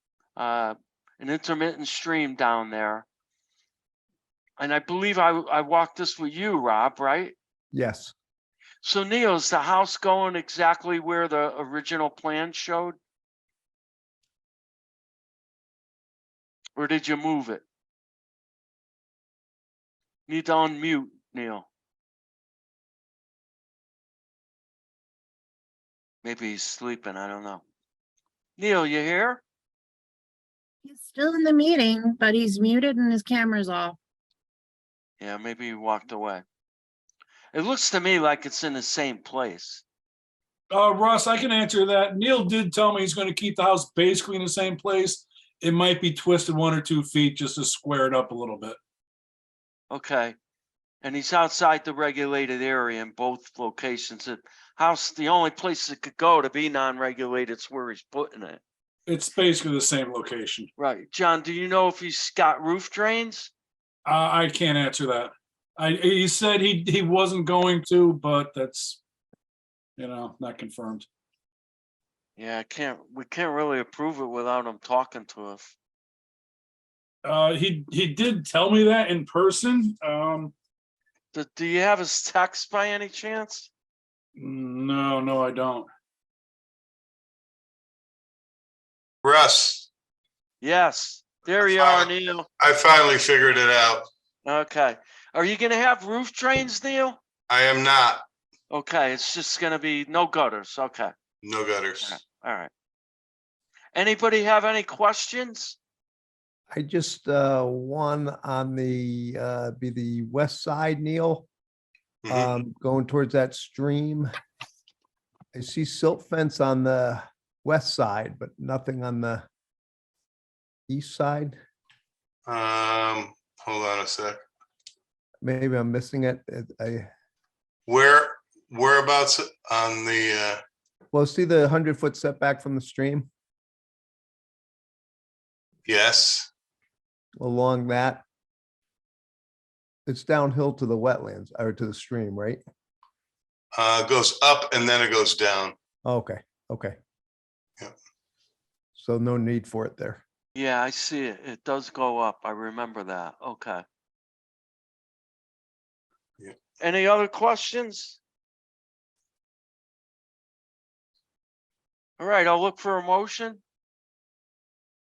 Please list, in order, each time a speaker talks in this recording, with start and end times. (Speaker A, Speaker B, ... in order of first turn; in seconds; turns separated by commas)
Speaker A: 0.4-3.0, Speaker A: 4.6-7.3, Speaker B: 7.7-8.1, Speaker A: 8.8-13.0, Speaker A: 16.8-17.6, Speaker A: 20.3-21.7, Speaker A: 26.2-27.6, Speaker A: 28.6-29.4, Speaker C: 30.8-34.0, Speaker A: 35.2-36.4, Speaker A: 37.5-39.8, Speaker D: 40.7-48.8, Speaker A: 49.9-50.3, Speaker A: 51.0-58.6, Speaker D: 59.0-60.7, Speaker A: 60.8-63.5, Speaker D: 64.0-69.0, Speaker D: 70.0-71.1, Speaker A: 72.4-75.7, Speaker D: 77.2-80.5, Speaker A: 81.3-83.7, Speaker D: 84.4-85.9, Speaker E: 89.2-89.9, Speaker A: 90.6-92.5, Speaker E: 91.6-94.1, Speaker A: 94.5-97.2, Speaker E: 97.5-98.2, Speaker A: 98.7-101.1, Speaker E: 101.4-102.2, Speaker A: 102.0-102.7, Speaker A: 103.9-105.8, Speaker B: 106.7-111.5, Speaker E: 112.2-112.5, Speaker B: 112.3-114.3, Speaker B: 115.5-119.4, Speaker B: 120.9-121.6, Speaker E: 122.5-124.4, Speaker B: 125.4-127.1, Speaker E: 127.9-130.6, Speaker B: 131.1-133.3, Speaker E: 135.9-136.5, Speaker B: 137.4-138.2, Speaker B: 140.1-142.6, Speaker E: 143.7-145.8, Speaker B: 146.1-147.0, Speaker B: 148.9-150.2, Speaker A: 150.6-153.8, Speaker A: 156.8-158.2, Speaker A: 162.2-163.6